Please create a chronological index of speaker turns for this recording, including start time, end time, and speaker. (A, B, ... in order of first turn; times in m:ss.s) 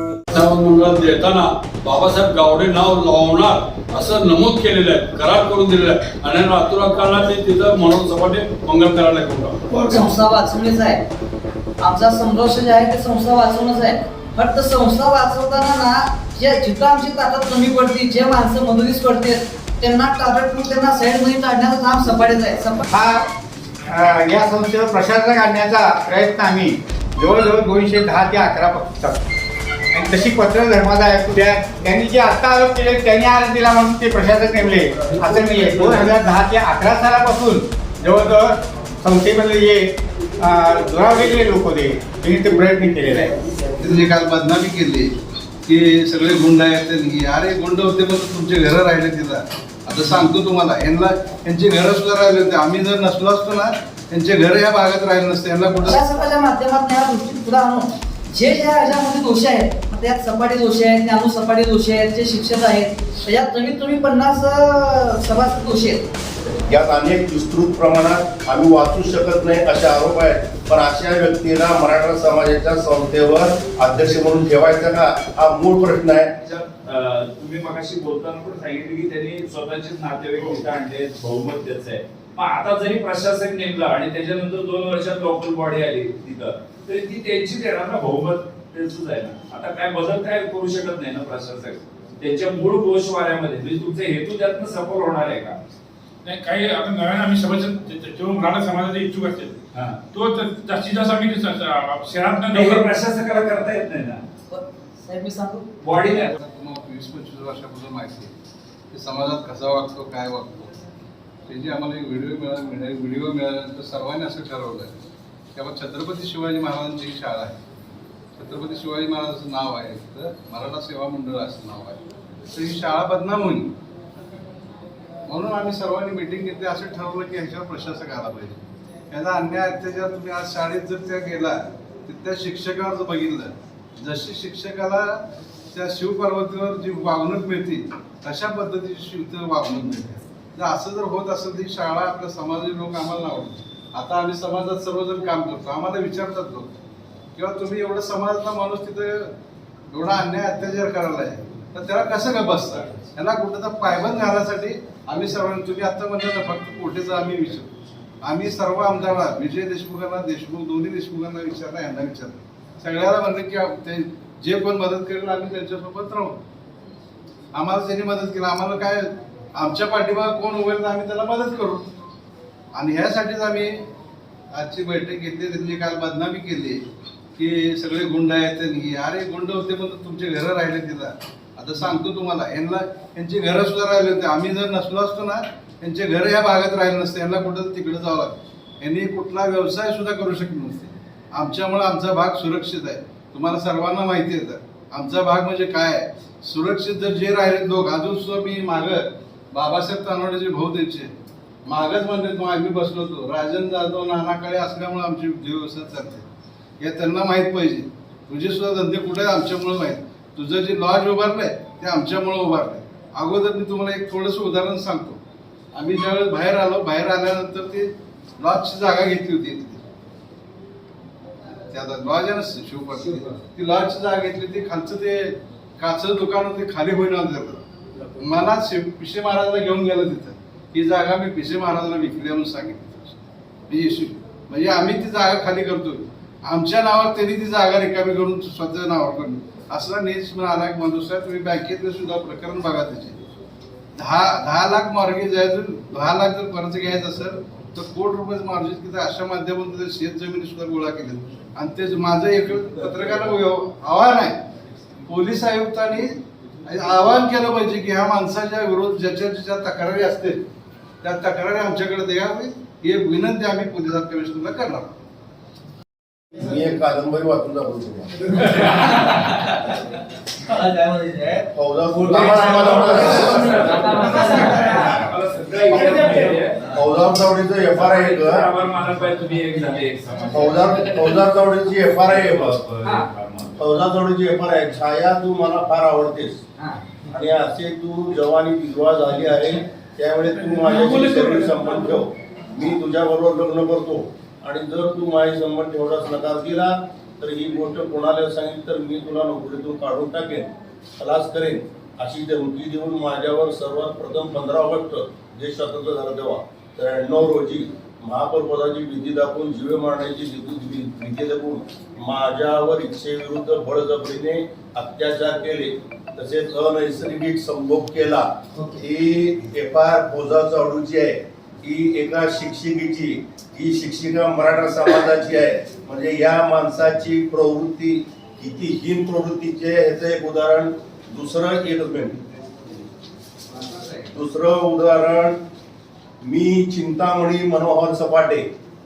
0:00.3-0:09.6 A
0:09.7-0:11.0 B
0:11.8-0:22.8 B
0:22.9-0:23.3 C
0:23.9-0:29.2 C
0:29.9-0:43.3 C
0:43.8-0:45.2 D
0:45.7-0:56.0 D
0:55.8-1:06.1 B
1:06.7-1:16.3 E
1:16.4-1:35.6 F
1:36.2-1:42.9 G
1:39.7-1:40.1 F
1:42.5-1:44.2 F
1:44.5-1:45.7 B
1:45.8-1:46.3 F
1:46.4-1:48.3 D
1:48.9-1:50.7 D
1:51.5-1:55.0 D
1:55.6-1:57.6 D
1:58.4-2:03.7 D
2:05.3-2:15.2 D
2:15.7-2:26.8 D
2:27.4-2:29.3 D
2:29.9-2:37.7 D
2:38.2-2:46.4 D
2:47.5-2:51.9 D
2:52.7-2:53.9 D
2:54.5-2:56.8 D
2:57.4-3:21.1 D
3:21.7-3:26.3 D
3:26.8-3:35.2 D
3:35.7-3:39.8 D
3:41.7-4:03.2 D
4:04.0-4:14.4 D
4:15.1-4:20.4 D
4:21.0-4:24.9 D
4:26.4-4:28.8 E
4:31.5-4:33.8 E
4:32.2-4:36.7 F
4:35.7-4:36.1 E
4:36.7-4:38.5 E
4:37.7-4:41.2 F
4:40.3-4:42.6 E
4:42.0-4:43.6 F
4:43.6-4:46.4 E
4:47.1-5:32.2 E
4:50.8-4:51.4 G
5:34.1-5:35.4 E
5:36.2-5:38.5 E